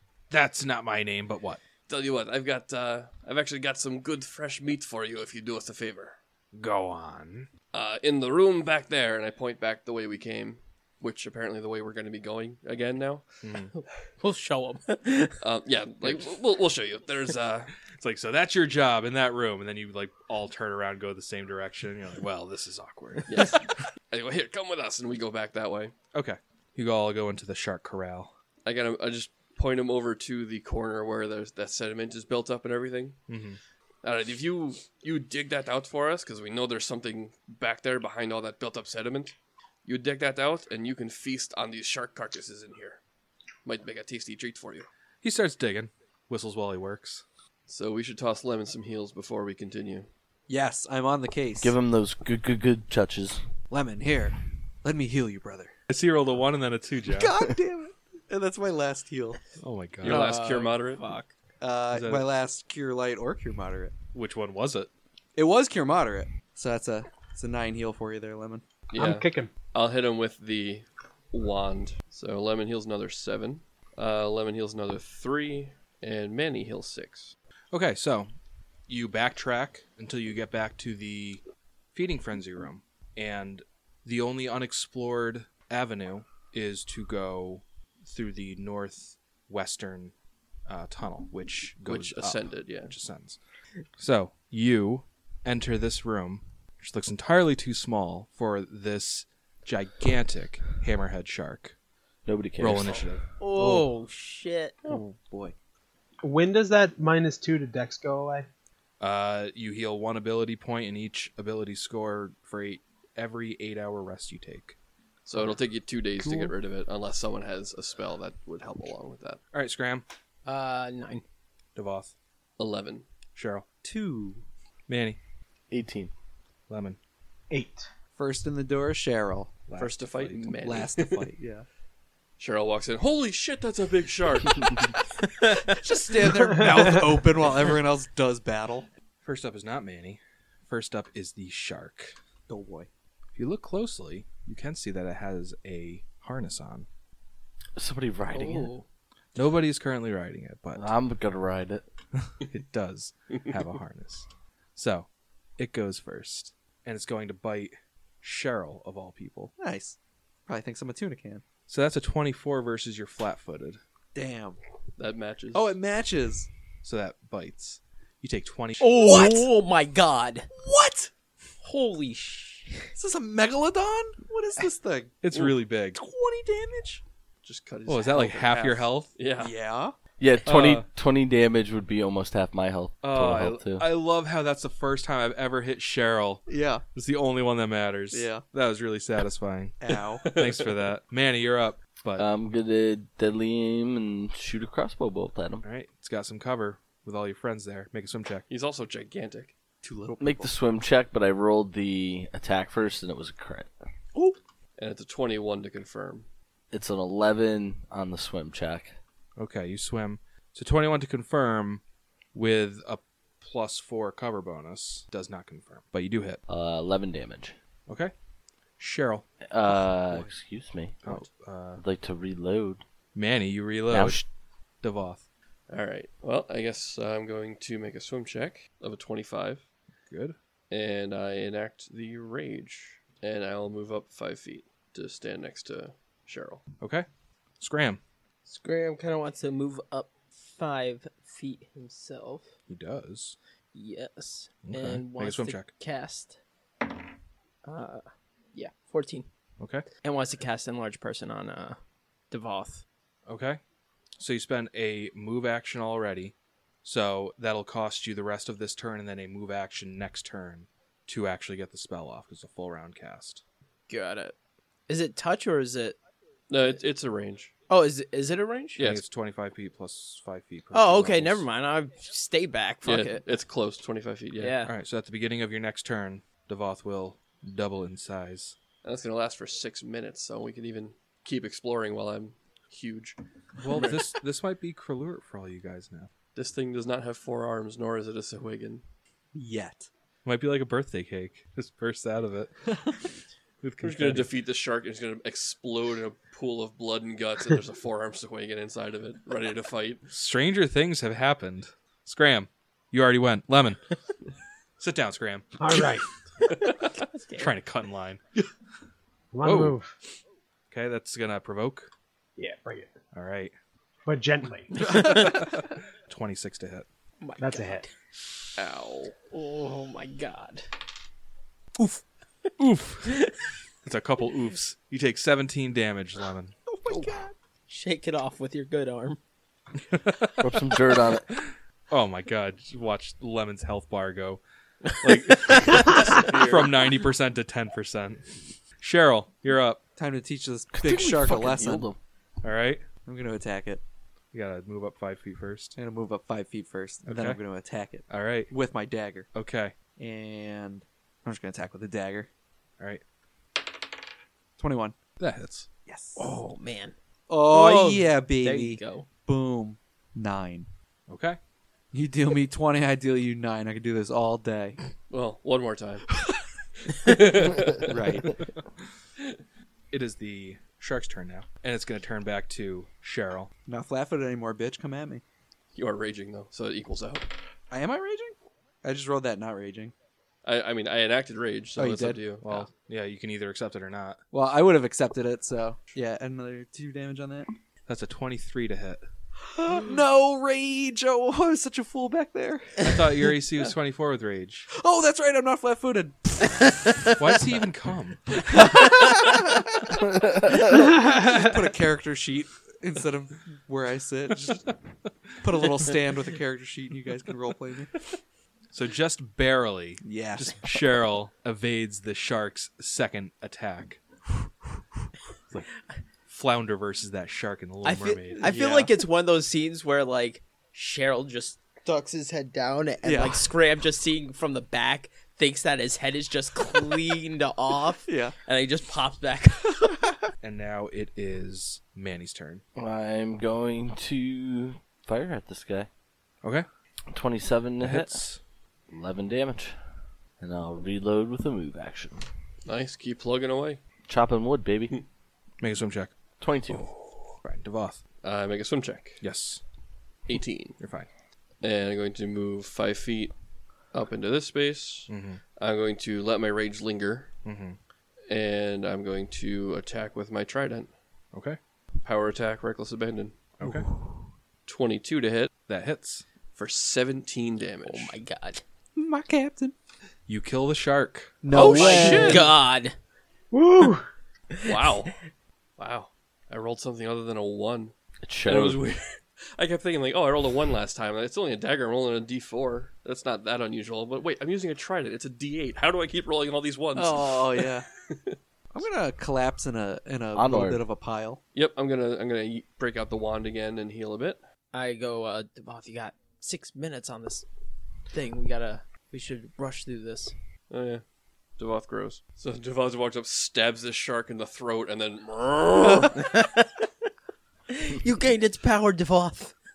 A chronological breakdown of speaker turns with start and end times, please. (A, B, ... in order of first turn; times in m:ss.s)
0:00.3-0:01.6 A
0:01.9-0:06.2 B
0:06.5-0:07.5 A
0:07.7-0:13.3 B
0:13.4-0:13.7 A
0:14.2-0:15.4 C
0:15.4-0:17.7 B
0:17.9-0:23.6 A
0:23.3-0:25.9 B
0:26.1-0:28.3 A
0:28.6-0:33.2 B
0:33.3-0:33.6 A
0:34.0-0:43.0 B
0:43.6-0:44.9 B
0:45.2-0:47.2 A
0:47.7-0:50.1 B
0:50.5-0:51.7 D
0:51.6-0:53.4 E
0:53.7-0:55.7 D
0:55.9-0:57.4 A
0:57.1-0:59.4 D
0:59.6-1:00.3 A
1:00.0-1:01.0 B
1:00.0-1:01.3 C
1:01.6-1:04.0 D
1:01.9-1:02.3 A
1:04.1-1:04.9 A
1:05.4-1:08.6 D
1:08.9-1:17.4 B
1:09.0-1:09.5 F
1:17.7-1:18.3 A
1:18.9-1:21.4 A
1:21.9-1:30.1 A
1:30.7-1:33.4 A
1:31.9-1:33.0 B
1:34.0-1:41.8 A
1:42.3-1:43.0 E
1:42.6-1:43.2 A
1:43.4-1:44.8 C
1:43.6-1:43.8 D
1:44.9-1:45.5 D
1:46.2-1:48.5 F
1:49.0-1:54.8 A
1:55.3-1:59.4 B
1:59.5-2:00.0 A
2:00.4-2:01.2 C
2:01.8-2:02.1 A
2:02.6-2:03.0 B
2:03.4-2:03.7 A
2:03.8-2:04.4 D
2:04.9-2:05.2 A
2:05.7-2:06.1 E
2:06.7-2:07.0 A
2:07.5-2:07.9 F
2:08.2-2:09.5 D
2:09.7-2:10.5 A
2:09.8-2:11.3 B
2:10.6-2:11.7 D
2:12.4-2:15.0 B
2:15.4-2:15.6 C
2:15.7-2:18.9 D
2:19.2-2:22.2 A
2:22.5-2:22.9 D
2:23.4-2:26.9 A
2:27.8-2:28.7 E
2:28.3-2:28.8 C
2:29.4-2:30.9 A
2:30.8-2:31.8 E
2:32.2-2:39.5 A
2:39.6-2:41.4 D
2:41.7-2:43.8 A
2:44.1-2:44.6 D
2:45.0-2:45.7 B
2:45.5-2:46.5 D
2:46.8-2:49.0 A
2:48.8-2:50.5 C
2:49.0-2:49.5 D
2:50.5-2:51.1 D
2:51.6-2:52.9 C
2:53.0-2:57.0 D
2:55.2-2:56.0 A
2:57.4-2:59.5 B
2:57.9-2:59.1 A
2:59.4-3:00.0 D
3:00.2-3:03.8 E
3:00.5-3:00.8 A
3:03.0-3:12.3 A
3:06.5-3:06.8 D
3:08.1-3:08.4 D
3:09.8-3:10.3 D
3:10.2-3:10.7 B
3:12.2-3:15.6 E
3:15.6-3:18.4 A
3:18.5-3:19.5 B
3:19.8-3:20.5 D
3:20.2-3:23.7 E
3:24.8-3:26.3 B
3:26.7-3:28.9 E
3:29.4-3:31.8 A
3:32.3-3:36.4 A
3:36.5-3:37.6 E
3:37.9-3:38.1 A
3:38.8-3:39.3 A
3:39.4-3:41.2 E
3:39.7-3:40.3 D
3:41.0-3:41.8 A
3:41.8-3:42.8 E
3:43.2-3:44.3 A
3:43.9-3:44.2 E
3:44.8-3:45.2 A
3:45.7-3:49.6 B
3:50.1-3:50.4 A
3:50.7-3:56.6 B
3:56.8-3:57.1 A
3:57.6-3:58.0 A
3:58.5-4:02.5 C
4:02.7-4:03.4 A
4:03.7-4:06.4 C
4:04.6-4:05.7 A
4:07.6-4:09.3 C
4:09.6-4:09.9 A
4:10.0-4:11.8 C
4:12.3-4:12.8 C
4:13.3-4:13.6 A
4:14.2-4:23.4 A
4:23.9-4:24.4 C
4:24.9-4:26.0 C
4:26.5-4:27.5 B
4:27.7-4:28.8 C
4:28.8-4:29.0 B
4:28.8-4:31.4 A
4:30.7-4:33.2 C
4:32.8-4:34.6 B
4:34.4-4:34.7 C
4:34.6-4:38.6 A
4:38.8-4:44.0 B
4:43.6-4:46.1 A
4:46.4-4:48.8 B
4:49.3-4:49.9 D
4:50.2-4:53.0 A
4:53.6-4:54.3 A
4:53.8-5:00.0 B
5:00.1-5:03.8 A
5:04.8-5:05.9 A
5:05.6-5:06.0 F
5:07.1-5:07.5 C
5:07.4-5:08.2 A
5:09.3-5:09.9 F
5:09.4-5:09.8 A
5:10.7-5:11.9 A
5:12.4-5:12.9 F
5:13.1-5:13.5 A
5:14.1-5:14.9 F
5:14.8-5:16.9 A
5:17.2-5:17.9 C
5:17.4-5:17.8 F
5:18.6-5:19.2 B
5:19.3-5:20.7 C
5:22.6-5:23.2 A
5:23.8-5:26.6 A
5:26.7-5:27.2 D
5:26.9-5:29.2 C
5:29.9-5:30.7 A
5:30.4-5:31.2 E
5:31.3-5:39.8 A
5:35.5-5:35.8 C
5:35.9-5:36.7 B
5:40.0-5:41.9 D
5:40.7-5:42.0 E
5:42.4-5:42.8 A
5:43.1-5:43.8 D
5:44.3-5:45.8 A
5:45.8-5:49.3 D
5:47.1-5:47.4 A
5:48.1-5:48.5 A
5:49.3-5:49.8 A
5:50.0-5:52.3 D
5:54.6-5:55.0 D
5:55.2-5:55.7 A
5:55.9-5:56.3 D
5:56.2-5:56.9 C
5:57.3-6:00.7 D
5:57.5-5:59.1 C
6:01.1-6:01.4 A
6:01.9-6:04.8 D
6:05.1-6:06.1 B
6:06.9-6:08.2 B
6:07.9-6:08.4 D
6:09.9-6:13.5 A
6:13.7-6:15.2 D
6:15.8-6:17.3 B
6:17.7-6:19.9 D
6:20.4-6:22.7 B
6:21.8-6:22.2 D
6:22.4-6:24.2 A
6:24.3-6:27.5 D
6:27.9-6:29.0 A
6:29.6-6:33.1 D
6:32.8-6:34.7 A
6:34.7-6:36.8 D
6:37.2-6:38.7 A
6:38.5-6:39.9 D
6:40.6-6:44.7 D
6:45.4-6:48.0 D
6:48.7-6:54.0 A
6:50.0-6:50.8 D
6:56.3-6:58.5 A
6:57.8-7:09.9 C
6:58.4-6:58.9 D
7:03.0-7:03.5 D
7:08.1-7:08.4 D
7:10.4-7:12.6 A
7:12.8-7:15.9 E
7:17.1-7:18.2 E
7:17.8-7:18.4 A
7:18.9-7:19.8 E
7:20.4-7:22.2 E
7:22.7-7:23.8 B
7:24.1-7:24.9 E
7:25.6-7:26.2 A
7:26.4-7:26.9 E
7:26.7-7:28.0 A
7:28.2-7:29.2 B
7:29.2-7:29.6 A
7:30.3-7:30.8 B
7:30.8-7:31.1 A
7:31.6-7:33.3 B
7:33.9-7:37.3 B
7:35.1-7:35.4 A
7:37.4-7:37.8 A
7:38.3-7:40.9 B
7:41.3-7:41.6 A
7:42.0-7:43.3 B
7:43.6-7:43.9 A
7:43.6-7:44.1 D
7:44.7-7:45.5 B
7:45.7-7:46.2 A
7:46.6-7:48.2 B
7:47.9-7:48.6 C
7:49.0-7:49.7 D
7:50.3-7:51.4 A
7:51.4-7:52.5 D
7:51.5-7:52.5 B
7:51.5-7:52.9 C
7:53.5-7:54.1 F
7:54.6-7:55.2 B
7:55.8-7:57.9 B
7:58.2-7:58.9 E
7:58.4-8:08.4 B
8:07.0-8:07.9 D
8:08.7-8:11.4 D
8:10.4-8:10.8 E
8:11.5-8:14.4 B
8:14.7-8:17.4 C
8:18.1-8:20.3 C
8:20.7-8:21.0 B
8:21.6-8:26.2 B
8:26.0-8:26.7 C
8:27.7-8:29.6 C